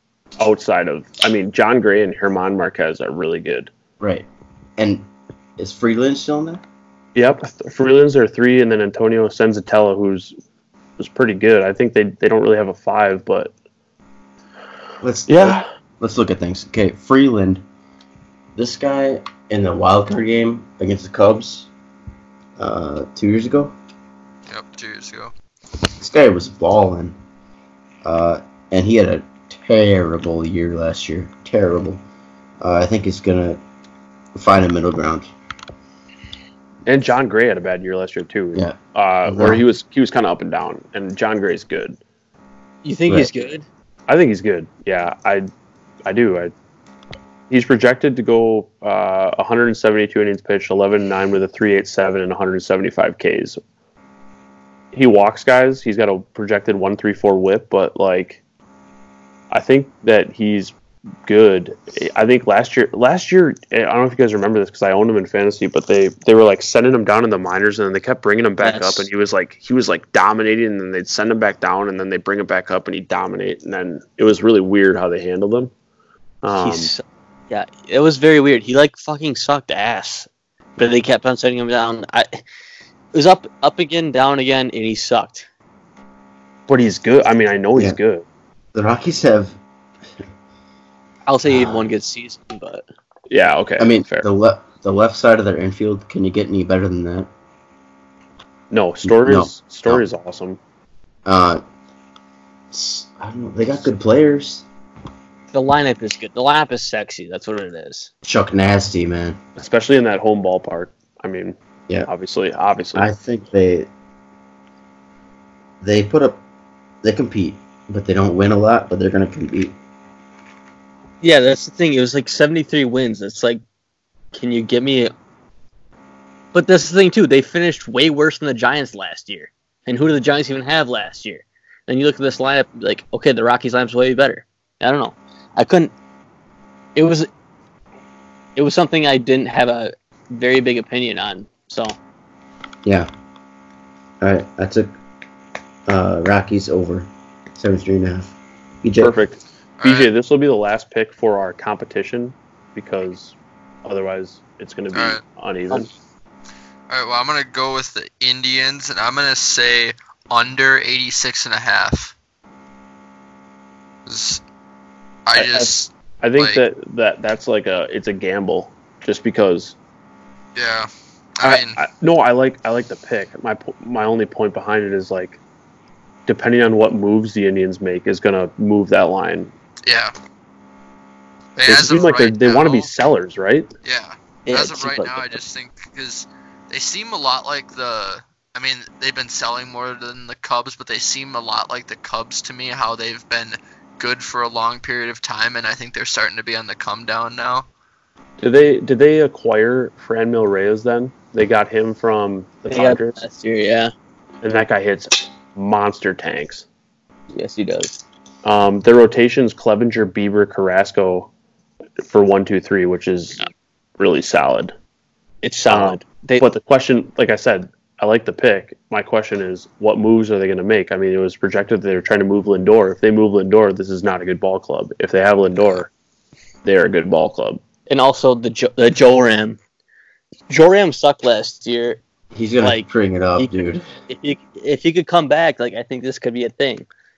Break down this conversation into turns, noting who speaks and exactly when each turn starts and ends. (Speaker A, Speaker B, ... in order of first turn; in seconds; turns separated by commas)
Speaker A: 0.4-3.7, Speaker B: 4.0-4.3, Speaker B: 4.8-5.0, Speaker B: 5.6-6.6, Speaker A: 7.1-10.3, Speaker A: 11.0-13.5, Speaker B: 15.0-17.6, Speaker A: 15.3-15.7, Speaker B: 18.6-21.7, Speaker B: 22.6-23.7, Speaker C: 24.5-25.3, Speaker B: 26.0-27.1, Speaker B: 28.0-32.0, Speaker B: 32.6-33.6, Speaker B: 34.3-35.3, Speaker A: 36.9-42.0, Speaker B: 38.5-39.6, Speaker D: 42.8-43.6, Speaker A: 44.1-45.5, Speaker A: 46.0-46.5, Speaker A: 47.5-53.6, Speaker A: 54.9-58.4, Speaker A: 59.5-60.7, Speaker A: 61.3-75.7, Speaker D: 68.6-69.1, Speaker A: 76.4-76.9, Speaker D: 76.5-82.4, Speaker D: 83.1-85.5, Speaker A: 86.7-88.2, Speaker B: 88.7-89.6, Speaker D: 91.3-92.8, Speaker B: 91.5-91.9, Speaker A: 93.3-94.3, Speaker B: 93.8-97.3, Speaker A: 98.7-100.6, Speaker B: 99.0-100.0, Speaker B: 101.2-101.6, Speaker B: 102.7-104.7, Speaker D: 105.5-108.1, Speaker B: 108.2-109.4, Speaker A: 109.6-113.1, Speaker B: 112.9-113.9, Speaker B: 115.8-116.4, Speaker B: 117.0-119.7, Speaker D: 121.2-123.6, Speaker D: 124.3-125.1, Speaker D: 126.5-135.9, Speaker D: 136.9-137.3, Speaker D: 138.6-141.9, Speaker B: 144.2-144.9, Speaker B: 145.9-149.1, Speaker A: 149.0-155.9, Speaker C: 149.8-150.1, Speaker C: 154.9-155.2, Speaker C: 156.9-162.1, Speaker C: 164.1-164.4, Speaker C: 165.3-166.6, Speaker A: 165.3-169.8, Speaker C: 170.6-171.8, Speaker A: 171.4-175.4, Speaker A: 176.3-179.5, Speaker C: 179.8-180.1, Speaker C: 181.6-182.9, Speaker A: 181.7-183.7, Speaker C: 183.8-197.7, Speaker D: 184.4-185.3, Speaker A: 198.4-203.2, Speaker D: 202.7-203.9, Speaker A: 204.4-206.7, Speaker D: 207.3-208.0, Speaker A: 208.4-211.3, Speaker A: 212.0-214.7, Speaker D: 215.4-216.4, Speaker A: 215.7-225.9, Speaker A: 226.6-227.6, Speaker D: 227.9-229.6, Speaker D: 230.5-232.0, Speaker B: 232.3-233.9, Speaker D: 232.6-236.9